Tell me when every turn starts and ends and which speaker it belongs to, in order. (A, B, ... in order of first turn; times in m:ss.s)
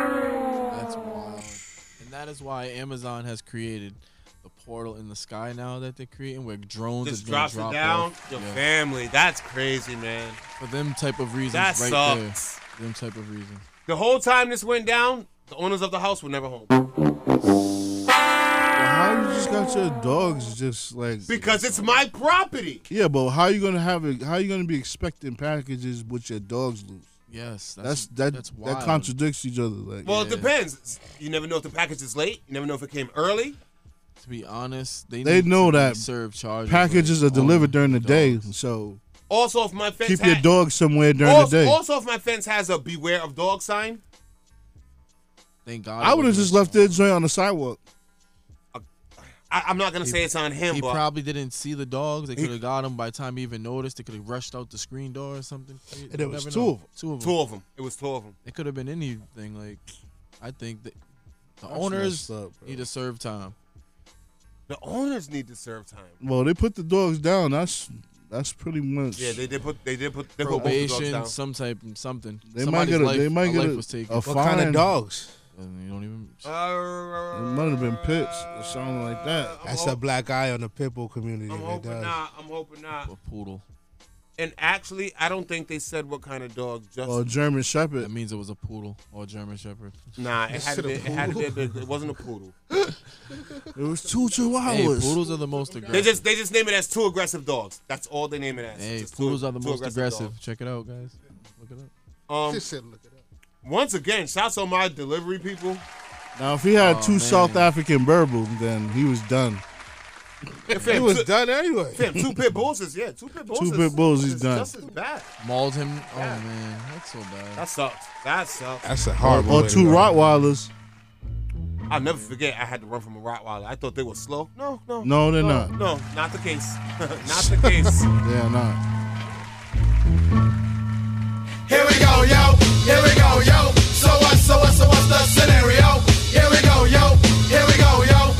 0:00.7-0:08.6 A
0:07.0-0:10.4 B
0:10.6-0:13.6 A
0:11.5-0:12.6 B
0:13.9-0:16.7 B
0:18.7-0:22.0 C
0:21.3-0:22.8 B
0:22.9-0:27.1 C
0:27.3-0:29.1 A
0:27.8-0:30.1 C
0:30.0-0:33.6 B
0:30.1-0:30.5 A
0:34.2-0:38.5 A
0:35.2-0:36.0 C
0:36.6-0:39.0 C
0:39.3-0:40.5 B
0:40.0-0:41.8 C
0:41.2-0:44.0 B
0:45.6-0:47.0 A
0:46.0-0:47.8 C
0:49.5-0:51.0 B
0:50.0-0:57.4 A
0:56.1-0:56.9 D
0:57.2-0:58.3 B
0:58.4-0:59.8 A
1:00.4-1:01.0 A
1:01.6-1:03.5 A
1:01.7-1:02.8 C
1:04.7-1:06.2 B
1:06.2-1:09.4 C
1:09.2-1:11.3 B
1:10.4-1:14.4 A
1:12.4-1:14.9 C
1:14.2-1:15.4 D
1:15.5-1:16.4 A
1:16.4-1:20.0 B
1:17.3-1:19.6 C
1:19.6-1:22.2 D
1:21.5-1:23.1 B
1:23.0-1:23.6 A
1:24.4-1:27.3 B
1:27.0-1:28.1 C
1:28.0-1:30.0 A
1:30.2-1:32.5 B
1:33.7-1:35.2 C
1:34.6-1:36.2 A
1:35.9-1:40.3 B
1:38.8-1:41.9 A
1:42.3-1:42.6 B
1:42.4-1:43.1 D
1:43.6-1:45.8 B
1:46.4-1:49.6 C
1:46.7-1:47.7 A
1:50.7-1:51.3 B
1:50.8-1:52.1 D
1:51.9-1:55.3 B
1:53.5-1:54.7 C
1:55.4-1:57.6 A
1:56.1-1:56.4 B
1:57.6-2:00.1 B
1:58.8-2:00.1 D
1:59.2-2:00.7 C
2:01.9-2:08.1 B
2:05.0-2:05.7 C
2:07.4-2:07.7 D
2:08.2-2:08.8 C
2:11.7-2:13.8 E